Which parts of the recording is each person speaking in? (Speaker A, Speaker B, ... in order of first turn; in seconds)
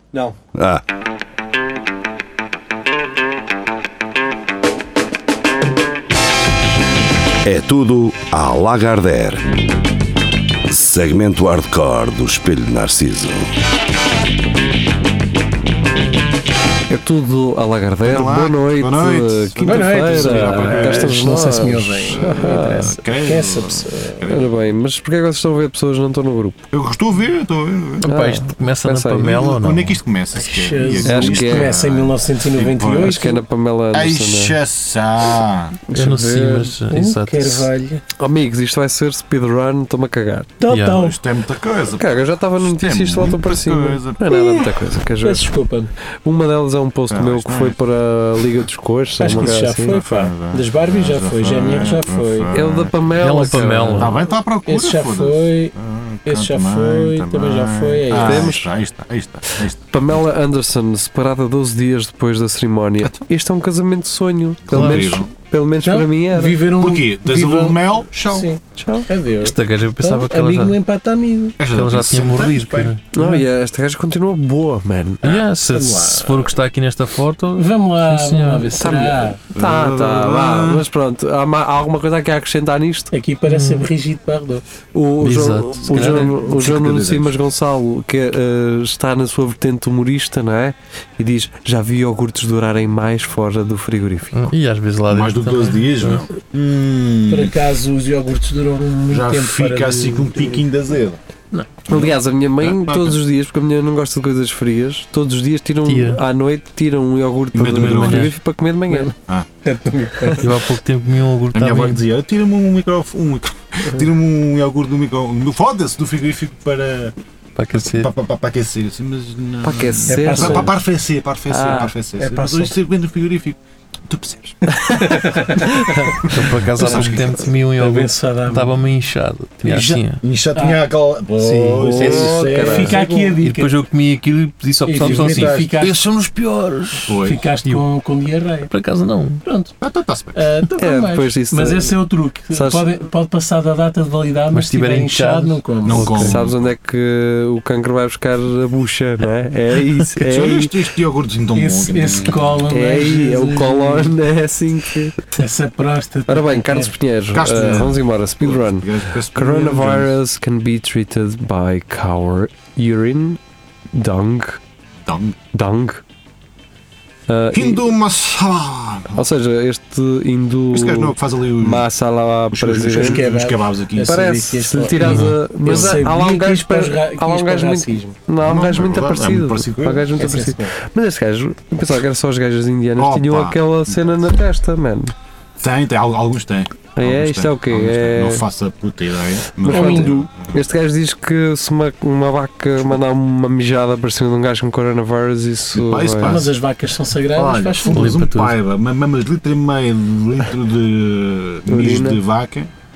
Speaker A: 0.5-0.8, 7.5-9.5, 10.7-13.5
Speaker B: 16.9-22.9, 24.3-26.6, 28.0-29.4, 31.0-31.8, 33.0-34.6, 35.9-36.8, 38.2-40.6, 42.0-45.5, 46.2-50.0, 52.5-54.2, 58.2-58.7, 59.9-66.6, 68.8-69.1, 73.1-75.3, 78.8-83.1, 84.9-94.5, 101.9-109.1, 119.6-120.8, 121.5-121.9, 131.8-133.0, 140.8-141.9, 142.5-142.9, 146.1-150.7, 152.7-155.1, 156.3-163.4, 163.9-164.6, 165.5-166.0, 167.3-167.8, 169.1-173.2, 174.0-185.1, 186.9-188.4, 189.7-196.4, 201.7-202.2
Speaker C: 18.0-21.3, 21.9-24.8, 26.7-28.1, 29.2-33.4, 33.9-35.8, 40.9-44.8, 47.1-47.8, 49.3-53.0, 54.0-60.2, 63.0-63.3, 64.7-65.3, 66.7-68.5, 71.6-72.9, 79.5-80.9, 86.1-87.4, 95.1-97.5, 99.1-101.2, 101.9-103.2, 107.5-108.3, 111.5-117.2, 117.7-125.1, 126.8-127.5, 129.7-133.4, 134.9-135.8, 137.1-137.4, 139.8-140.4, 145.8-146.7, 150.2-152.6, 157.3-160.1, 165.0-165.4, 167.5-169.3, 170.7-171.9, 172.5-174.3, 175.1-175.9, 178.4-180.1, 183.0-184.2, 185.6-190.6, 195.7-196.5, 197.3-202.7
Speaker D: 19.6-24.2, 30.3-33.4, 36.9-38.0, 40.6-41.2, 45.2-45.9, 49.2-52.5, 54.6-55.7, 56.2-58.5, 65.8-71.6, 75.7-76.5, 77.5-79.4, 83.1-84.6, 85.9-86.3, 97.3-100.6, 109.6-110.6, 120.1-120.8, 121.6-122.7, 124.9-128.7, 129.7-129.9, 130.5-130.8, 132.6-133.7, 134.8-136.0, 137.2-138.7, 139.4-139.7, 140.3-146.2, 151.5-154.1, 155.3-156.9, 172.8-178.2, 180.1-180.7, 189.7-190.3, 196.2-198.1
Speaker E: 28.0-30.0, 35.9-37.7, 40.7-41.0, 53.2-54.1, 64.7-65.2, 69.4-70.8, 71.7-73.1, 75.2-78.7, 83.5-83.9, 85.2-86.3, 94.3-96.3, 105.8-106.2, 107.8-108.3, 110.4-112.0, 117.6-118.1, 126.1-130.2, 131.4-137.8, 138.7-139.4, 144.5-146.4, 175.0-175.3, 197.9-198.5